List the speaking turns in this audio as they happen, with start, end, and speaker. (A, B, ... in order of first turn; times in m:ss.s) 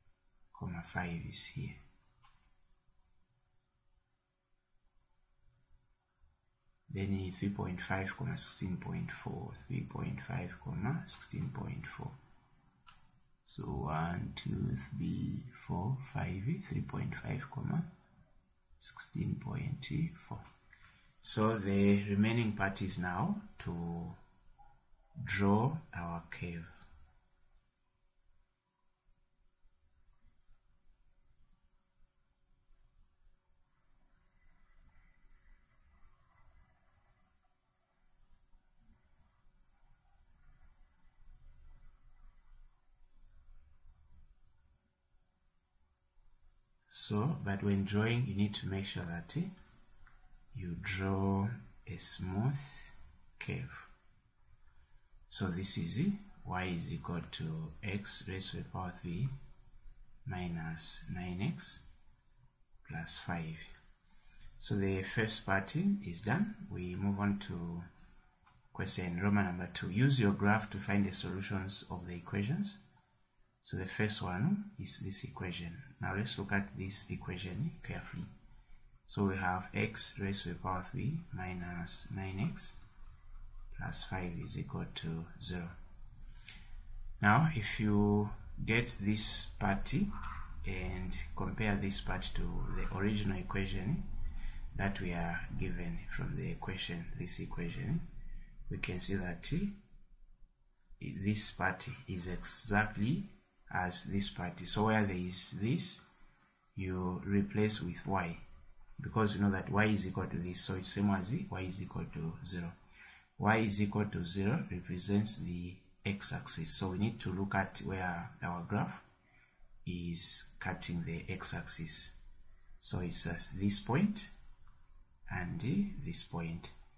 0:00.5-0:01.8 A
0:06.9-0:12.2 A
0:13.4-0:17.9 A
0:18.8-0:20.4 A
0:21.2-0:24.2 A
0:25.2-0:26.7 A
0:46.9-0:49.5 A
0:50.5-0:53.9 A
0:55.3-0:59.3 A
1:00.2-1:01.8 A
1:02.8-1:03.7 A
1:04.6-1:07.9 A
1:08.7-1:12.8 A
1:13.6-1:18.3 A
1:19.1-1:22.8 A
1:23.7-1:25.8 A
1:27.2-1:30.1 A
1:30.6-1:34.0 A
1:34.7-1:38.0 A
1:38.7-1:39.7 A
1:41.0-1:46.0 A
1:46.8-1:48.4 A
1:49.0-1:52.8 A
1:53.4-1:59.0 A
1:59.8-2:02.1 A
2:02.8-2:04.3 A
2:05.3-2:06.7 A